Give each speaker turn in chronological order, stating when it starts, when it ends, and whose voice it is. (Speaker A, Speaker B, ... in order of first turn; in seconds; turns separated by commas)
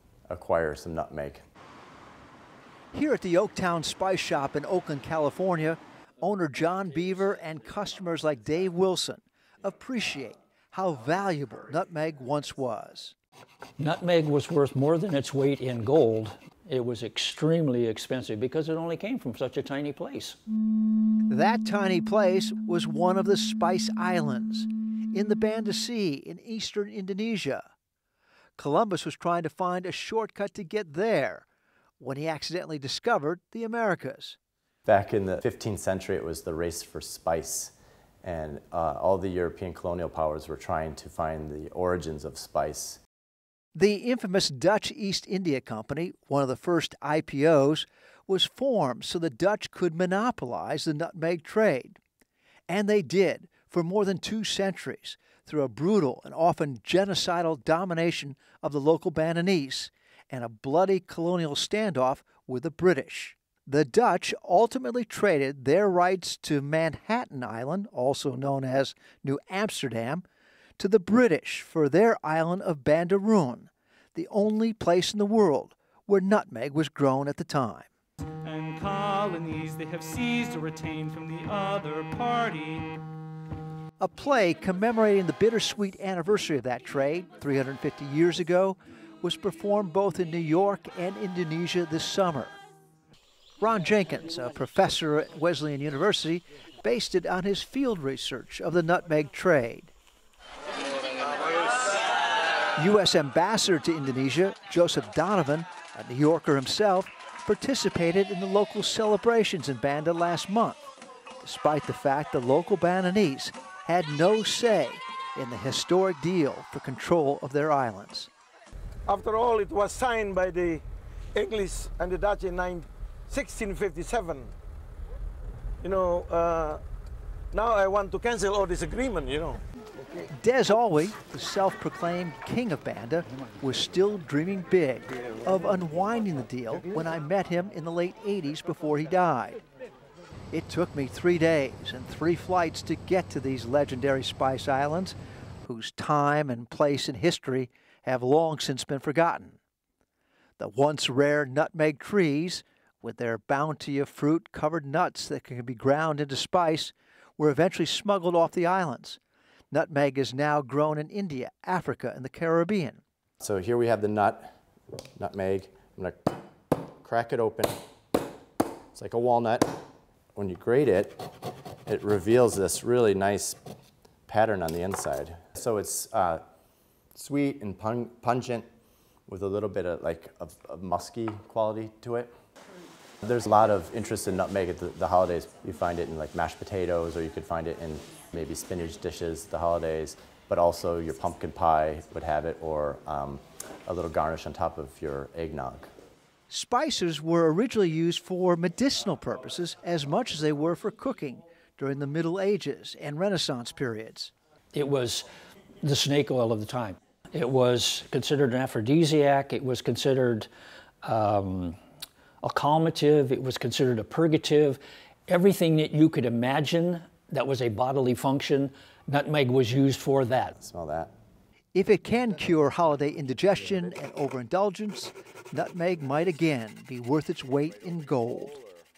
Speaker A: 0.3-1.4, Speaker B: 2.9-13.2, Speaker C: 13.8-20.4, Speaker B: 21.3-27.7, Speaker B: 28.6-31.5, Speaker B: 32.0-34.4, Speaker A: 34.9-43.0, Speaker B: 43.8-52.0, Speaker B: 52.7-70.2, Speaker B: 70.8-77.9, Speaker D: 78.4-82.9, Speaker B: 84.0-92.6, Speaker B: 93.6-99.9, Speaker B: 102.8-110.9, Speaker B: 111.4-118.3, Speaker E: 119.1-124.5, Speaker E: 125.8-126.8, Speaker E: 127.5-129.6, Speaker B: 130.3-139.6, Speaker B: 140.5-149.6, Speaker B: 150.6-159.2, Speaker B: 159.7-163.0, Speaker A: 163.4-164.5, Speaker A: 165.2-166.3, Speaker A: 167.0-167.8, Speaker A: 168.9-169.8, Speaker A: 170.4-171.4, Speaker A: 171.9-173.6, Speaker A: 174.3-176.4, Speaker A: 177.2-178.7, Speaker A: 179.3-182.3, Speaker A: 183.2-195.9, Speaker B: 196.5-204.3, Speaker C: 204.7-205.2, Speaker C: 205.8-210.5, Speaker C: 211.0-211.8, Speaker C: 212.4-220.6, Speaker A: 220.6-221.1, Speaker B: 221.7-228.6